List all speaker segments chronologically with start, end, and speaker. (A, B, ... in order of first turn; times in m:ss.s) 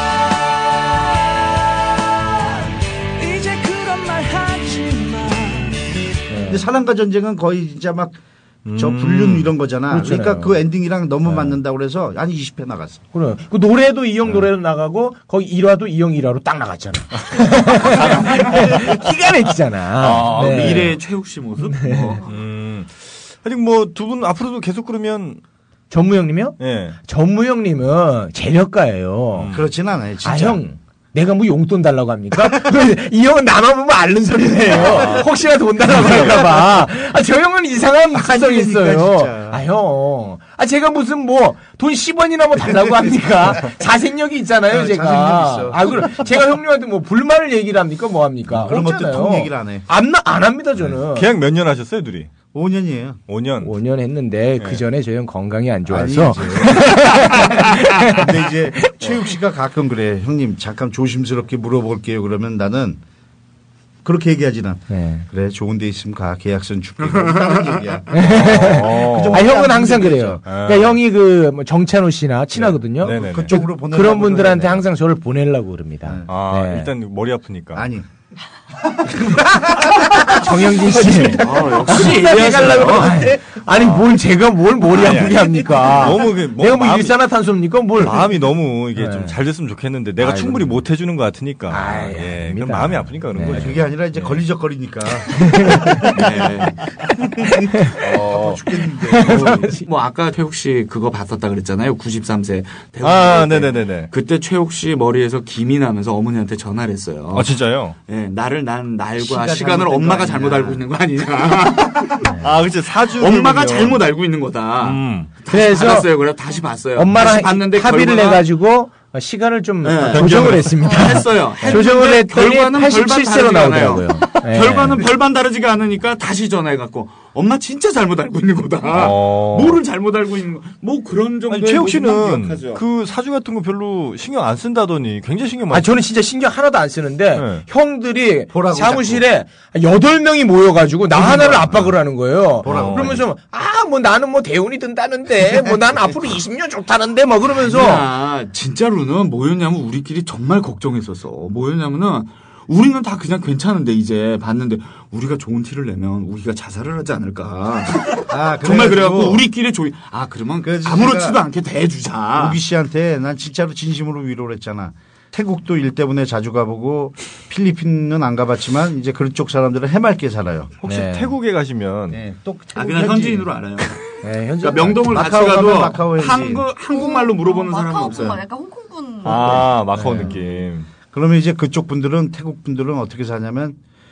0:06.3-0:06.7 A
0:06.5-0:08.2 B
0:08.6-0:09.5 C
0:08.7-0:13.0 B
0:09.9-0:10.6 A
0:11.3-0:11.5 A
0:13.1-0:21.0 A
0:17.7-0:18.9 C
0:20.0-0:21.0 C
0:20.3-0:22.3 D
0:22.2-0:25.4 C
0:25.9-0:29.5 A
0:26.6-0:27.0 C
0:29.3-0:29.6 C
0:29.5-0:30.6 B
0:30.2-0:51.3 A
0:32.3-0:32.8 B
0:34.7-0:35.2 B
0:38.1-0:39.6 B
0:42.6-0:43.7 B
0:44.7-0:46.3 B
0:48.5-0:49.8 B
0:50.8-0:52.3 C
0:52.5-0:53.2 B
0:53.3-0:53.7 C
0:53.6-0:58.3 A
0:55.9-1:03.0 B
0:58.8-0:59.1 A
1:04.0-1:10.4 B
1:04.9-1:05.2 A
1:07.2-1:07.5 D
1:08.1-1:16.9 A
1:08.5-1:09.4 C
1:10.4-1:11.0 C
1:12.9-1:14.9 B
1:13.0-1:13.6 C
1:16.3-1:17.8 C
1:17.7-1:18.0 B
1:19.0-1:22.2 B
1:20.1-1:28.3 A
1:21.4-1:23.3 D
1:23.6-1:24.1 C
1:24.9-1:27.3 C
1:28.0-1:34.4 C
1:29.0-1:29.4 A
1:30.2-1:30.8 A
1:31.7-1:33.8 A
1:33.5-1:36.2 B
1:35.4-1:36.0 A
1:36.1-1:36.8 D
1:37.0-1:39.7 B
1:38.0-1:38.3 C
1:39.0-1:39.8 A
1:39.2-1:47.5 D
1:43.0-1:44.1 C
1:47.3-1:47.9 C
1:48.1-1:52.4 D
1:49.2-1:50.8 B
1:52.4-1:54.1 C
1:53.2-1:58.4 D
1:54.8-1:55.3 C
1:55.5-1:56.3 A
1:56.9-2:05.0 A
1:59.8-2:12.8 D
2:00.1-2:00.8 C
2:00.8-2:01.1 E
2:08.9-2:09.8 C
2:11.5-2:15.9 C
2:15.7-2:28.0 A
2:17.3-2:17.6 C
2:18.5-2:19.2 B
2:21.1-2:21.9 B
2:22.6-2:23.3 B
2:22.6-2:23.2 C
2:27.5-2:42.6 D
2:38.3-2:39.5 B
2:40.6-2:41.4 B
2:42.3-2:50.8 B
2:50.8-2:52.2 C
2:50.8-2:51.3 A
2:52.1-2:53.5 B
2:52.7-2:54.0 D
2:54.2-2:55.2 A
2:54.6-2:58.5 D
2:55.0-2:56.7 B
2:56.9-2:59.9 E
2:59.2-3:00.9 C
2:59.2-2:59.6 D
2:59.9-3:00.3 A
3:01.1-3:03.8 B